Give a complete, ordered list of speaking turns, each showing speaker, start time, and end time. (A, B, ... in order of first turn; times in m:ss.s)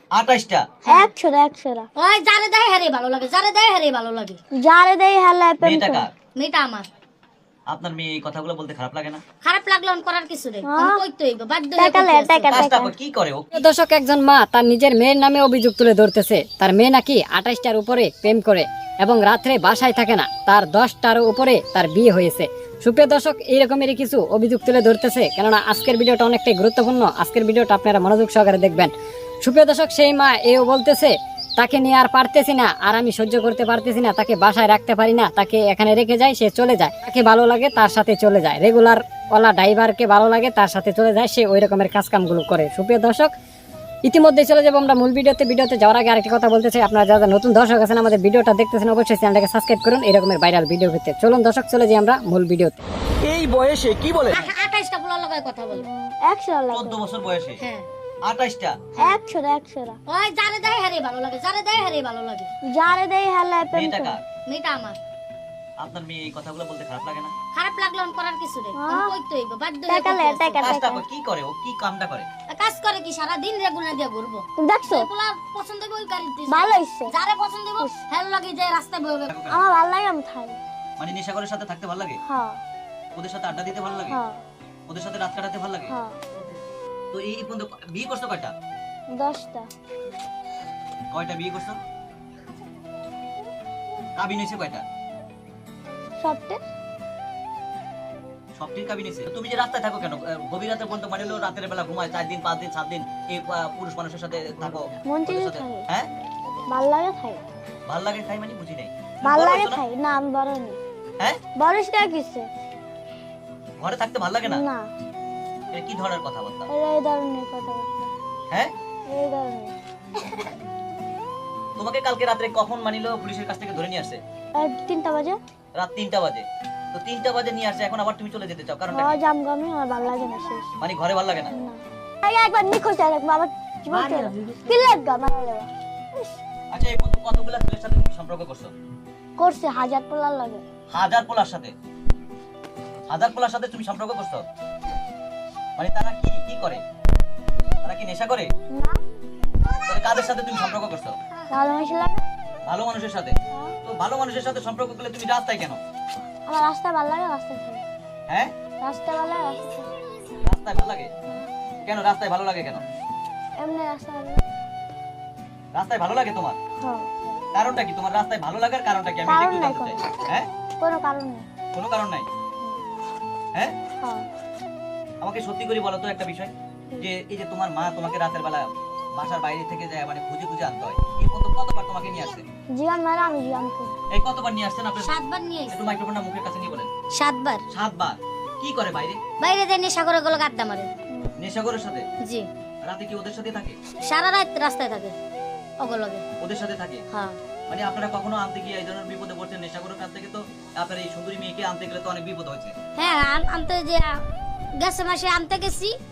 0:00.1-0:00.7 A
0:00.8-0:01.1 B
0:00.9-0:01.9 C
0:02.0-0:04.4 B
0:04.6-0:06.1 C
0:05.6-0:06.1 A
0:06.4-0:06.9 B
0:07.7-0:09.2 A
0:09.4-0:12.6 B
0:10.6-0:11.0 C
0:11.8-0:12.9 C
0:12.5-0:13.6 A
0:13.5-0:28.9 D
0:29.4-0:43.3 D
0:44.0-0:52.8 D
0:53.2-0:54.4 A
0:54.3-0:55.9 B
0:55.7-0:57.0 C
0:56.7-0:57.6 A
0:57.6-0:57.9 B
0:58.2-0:58.8 A
0:59.0-1:00.0 C
1:00.1-1:02.5 B
1:02.7-1:04.2 C
1:03.7-1:04.2 A
1:04.5-1:05.0 B
1:05.8-1:07.3 A
1:07.5-1:10.6 B
1:08.8-1:09.1 C
1:09.9-1:11.0 C
1:10.6-1:12.3 A
1:12.5-1:19.3 B
1:14.6-1:15.1 C
1:16.5-1:17.1 C
1:19.3-1:19.6 A
1:19.5-1:20.6 C
1:21.0-1:22.2 A
1:22.3-1:22.6 C
1:23.2-1:24.2 A
1:24.1-1:24.4 C
1:24.9-1:25.9 A
1:25.9-1:26.2 C
1:27.1-1:28.5 A
1:29.2-1:29.7 C
1:31.1-1:31.8 A
1:34.2-1:34.8 A
1:36.2-1:36.6 C
1:38.6-1:46.1 A
1:45.0-1:45.9 C
1:46.7-1:47.4 C
1:47.9-1:49.8 A
1:49.2-1:50.8 C
1:51.6-1:52.5 C
1:53.8-1:54.6 A
1:54.5-1:54.9 C
1:55.7-1:56.7 A
1:56.7-1:58.1 C
1:59.1-1:59.7 C
2:01.8-2:04.2 A
2:04.6-2:05.4 C
2:05.8-2:09.2 A
2:08.9-2:10.7 C
2:10.8-2:11.5 A
2:11.5-2:16.3 C
2:14.1-2:14.5 B
2:16.7-2:18.7 A
2:19.4-2:20.6 C
2:20.9-2:21.7 A
2:23.1-2:24.4 A
2:25.8-2:26.8 A
2:27.8-2:28.5 A
2:28.7-2:29.0 C
2:29.9-2:31.2 A
2:31.5-2:32.2 C
2:32.6-2:35.8 A
2:36.5-2:37.8 C
2:38.8-2:39.6 C
2:40.4-2:41.1 A
2:41.8-2:42.8 A
2:43.6-2:44.4 C
2:45.7-2:46.6 A
2:46.8-2:47.1 C
2:47.5-2:50.5 A
2:49.3-2:50.1 C
2:50.8-2:51.4 C
2:51.7-2:52.3 A
2:55.2-3:02.4 A
3:02.7-3:03.9 C
3:04.1-3:05.1 A
3:05.0-3:05.8 B
3:05.7-3:06.9 A
3:07.1-3:07.6 B
3:07.7-3:09.2 A
3:09.4-3:10.9 B
3:11.4-3:12.1 A
3:12.8-3:13.8 A
3:14.0-3:15.2 B
3:15.8-3:16.2 B
3:16.4-3:17.0 A
3:17.7-3:22.8 A
3:23.0-3:24.2 B
3:24.8-3:26.0 B